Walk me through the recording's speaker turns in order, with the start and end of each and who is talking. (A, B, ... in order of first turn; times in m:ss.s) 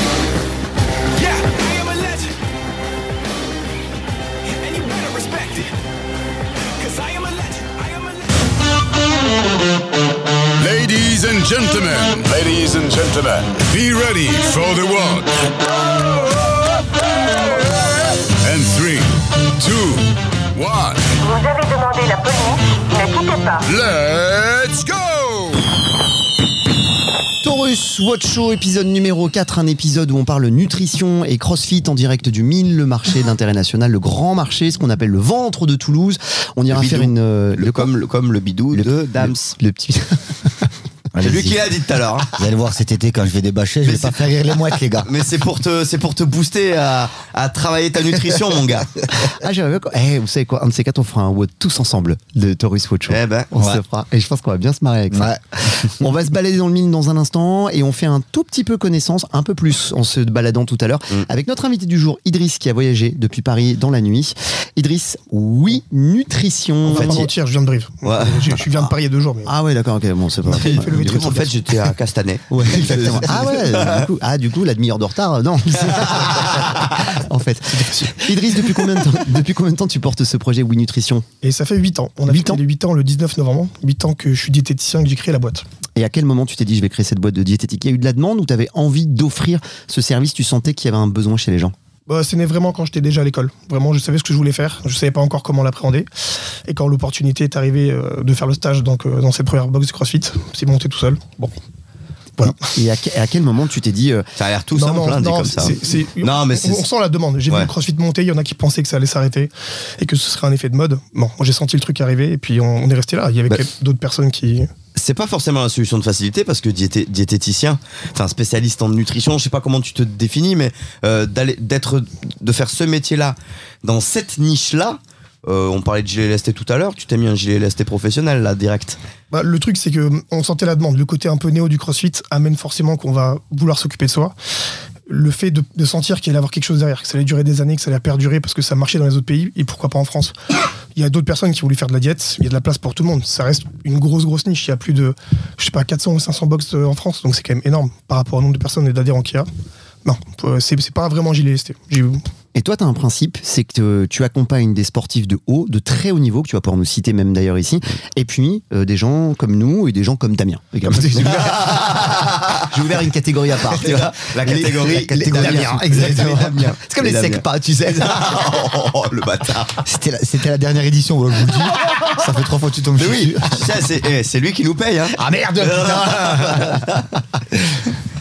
0:01.1-0:02.4 A
0:04.4-0:05.8 A
0:06.7-0:08.4 A
0:10.6-0:15.5 B
0:15.9-0:16.4 A
0:18.1-0:21.2 B
0:21.2-0:23.6 C
0:23.6-0:25.6 B
0:27.4-0:37.9 D
0:36.7-0:39.6 E
0:38.7-0:40.5 D
0:41.1-0:41.6 F
0:41.2-0:42.3 E
0:42.3-0:45.1 F
0:43.8-0:44.3 E
0:45.0-0:49.0 E
0:49.2-1:07.3 D
0:53.1-0:53.5 E
0:53.5-0:53.8 F
0:55.1-0:55.4 F
1:06.8-1:09.5 G
1:08.1-1:08.6 D
1:09.4-1:11.4 D
1:10.4-1:11.5 G
1:10.5-1:14.0 E
1:12.5-1:21.2 D
1:21.4-1:25.6 G
1:22.3-1:22.6 D
1:26.0-1:31.7 D
1:32.1-1:36.1 G
1:36.7-1:41.5 G
1:42.4-1:42.7 G
1:42.4-1:44.3 D
1:44.4-1:46.8 E
1:44.7-1:54.7 G
1:55.0-2:09.0 E
2:09.3-2:14.3 G
2:15.1-2:20.3 G
2:20.9-2:29.5 G
2:30.0-2:32.2 G
2:32.5-2:48.4 D
2:41.1-2:42.6 E
2:43.8-2:49.8 E
2:44.8-2:46.2 F
2:49.8-2:53.7 F
2:53.0-2:57.0 E
2:55.2-2:56.6 F